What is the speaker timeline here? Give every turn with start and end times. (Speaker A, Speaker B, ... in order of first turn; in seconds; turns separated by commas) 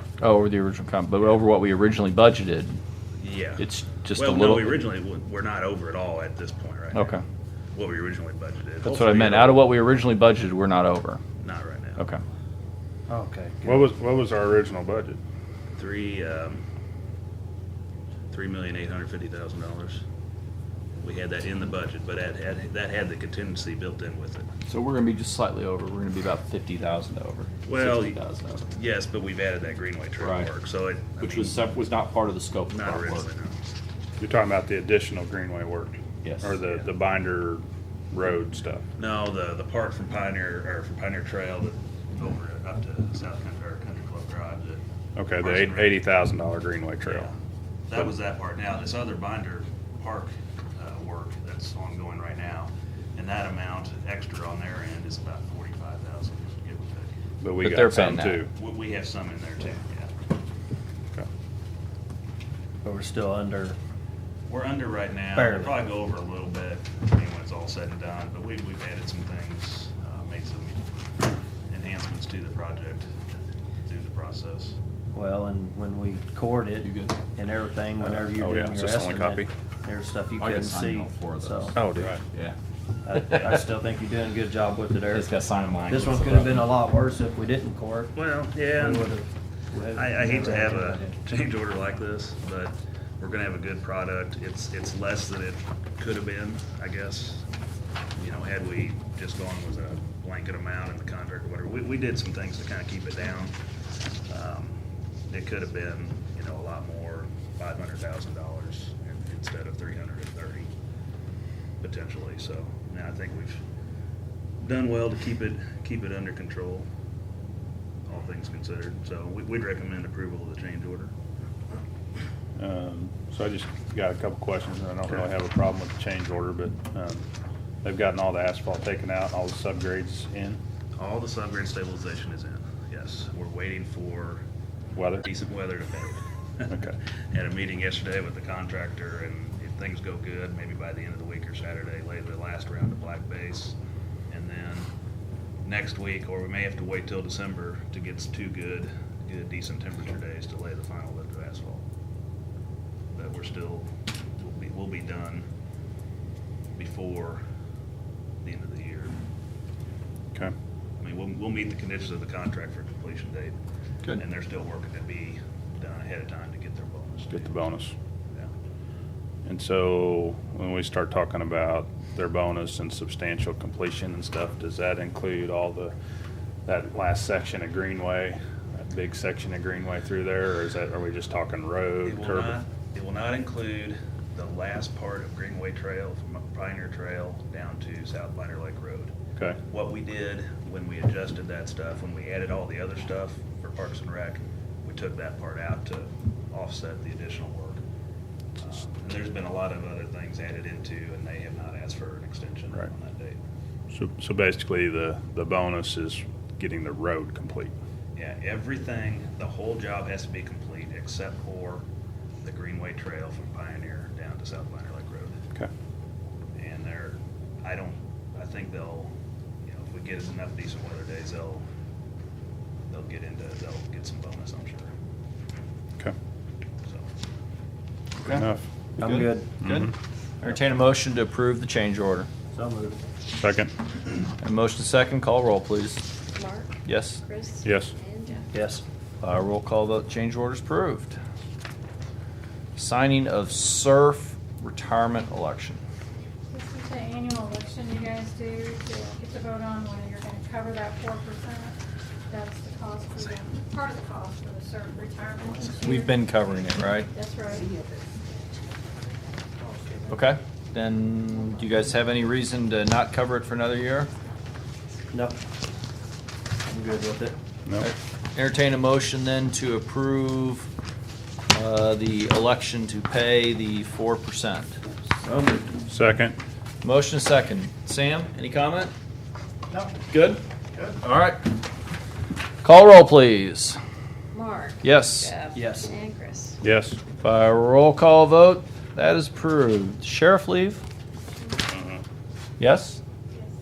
Speaker A: 0.2-2.8, Speaker B: 3.2-7.1, Speaker A: 3.6-4.8, Speaker A: 6.9-7.2, Speaker B: 7.7-9.6, Speaker A: 8.8-11.2, Speaker B: 11.4-12.0, Speaker C: 13.1-13.9, Speaker D: 13.6-15.2, Speaker B: 15.8-16.6, Speaker B: 18.3-20.0, Speaker B: 21.0-24.5, Speaker A: 24.7-28.7, Speaker B: 27.6-31.6, Speaker A: 30.2-30.5, Speaker A: 31.2-33.3, Speaker B: 32.7-33.6, Speaker D: 34.2-38.8, Speaker A: 36.2-36.7, Speaker B: 39.0-44.8, Speaker D: 45.2-47.3, Speaker B: 45.4-46.0, Speaker B: 47.0-47.3, Speaker B: 47.9-57.2, Speaker D: 57.4-58.5, Speaker A: 57.6-58.4, Speaker B: 58.5-60.4, Speaker C: 62.8-63.8, Speaker B: 64.5-70.9, Speaker C: 65.3-65.7, Speaker B: 71.7-73.1, Speaker B: 73.8-74.8, Speaker C: 75.1-81.8, Speaker A: 76.8-77.2, Speaker D: 78.0-79.5, Speaker A: 80.4-82.6, Speaker D: 81.7-82.2, Speaker C: 83.0-85.3, Speaker A: 83.1-83.6, Speaker A: 85.1-86.7, Speaker C: 85.9-88.1, Speaker B: 88.2-89.2, Speaker C: 88.8-91.2, Speaker B: 89.9-97.5, Speaker B: 98.2-103.6, Speaker B: 104.3-104.8, Speaker B: 105.3-110.7, Speaker B: 111.8-113.6, Speaker B: 114.6-116.9, Speaker B: 118.1-121.1, Speaker D: 122.6-127.2, Speaker D: 127.8-130.6, Speaker B: 131.0-134.4, Speaker D: 134.9-135.2, Speaker B: 135.2-143.8, Speaker B: 144.3-144.9, Speaker B: 145.6-151.8, Speaker B: 153.1-155.5, Speaker B: 156.8-157.4, Speaker B: 158.4-159.2, Speaker B: 161.0-163.6, Speaker B: 164.1-167.7, Speaker D: 167.3-167.9, Speaker D: 169.4-175.9, Speaker D: 176.7-182.6, Speaker B: 182.0-189.1, Speaker B: 189.7-197.8, Speaker B: 198.6-203.4, Speaker D: 203.9-207.7, Speaker B: 208.2-211.8, Speaker B: 212.4-215.4, Speaker B: 216.6-219.1, Speaker B: 219.7-221.7, Speaker B: 222.9-224.9, Speaker D: 228.3-228.6, Speaker C: 229.0-229.5, Speaker A: 229.0-232.3, Speaker D: 229.6-229.9, Speaker C: 232.5-233.0, Speaker D: 233.4-233.7, Speaker A: 234.4-236.1, Speaker E: 236.3-238.5, Speaker A: 236.8-237.2, Speaker D: 237.6-237.9, Speaker C: 238.5-238.8, Speaker A: 239.2-241.2, Speaker A: 242.8-245.8, Speaker F: 246.5-251.8, Speaker F: 252.3-256.3, Speaker A: 255.8-257.1, Speaker F: 257.0-257.7, Speaker C: 259.7-260.0, Speaker A: 260.1-264.1, Speaker C: 265.1-265.4, Speaker C: 266.7-267.4, Speaker A: 267.8-270.7, Speaker A: 271.5-274.8, Speaker C: 275.2-275.8, Speaker D: 275.9-276.4, Speaker A: 276.8-278.9, Speaker A: 280.1-280.4, Speaker A: 281.0-281.4, Speaker A: 282.6-283.8, Speaker E: 284.3-286.6, Speaker A: 284.8-285.3, Speaker C: 285.5-285.9, Speaker D: 286.6-287.0, Speaker A: 287.2-290.8, Speaker D: 291.7-292.0, Speaker A: 292.6-293.0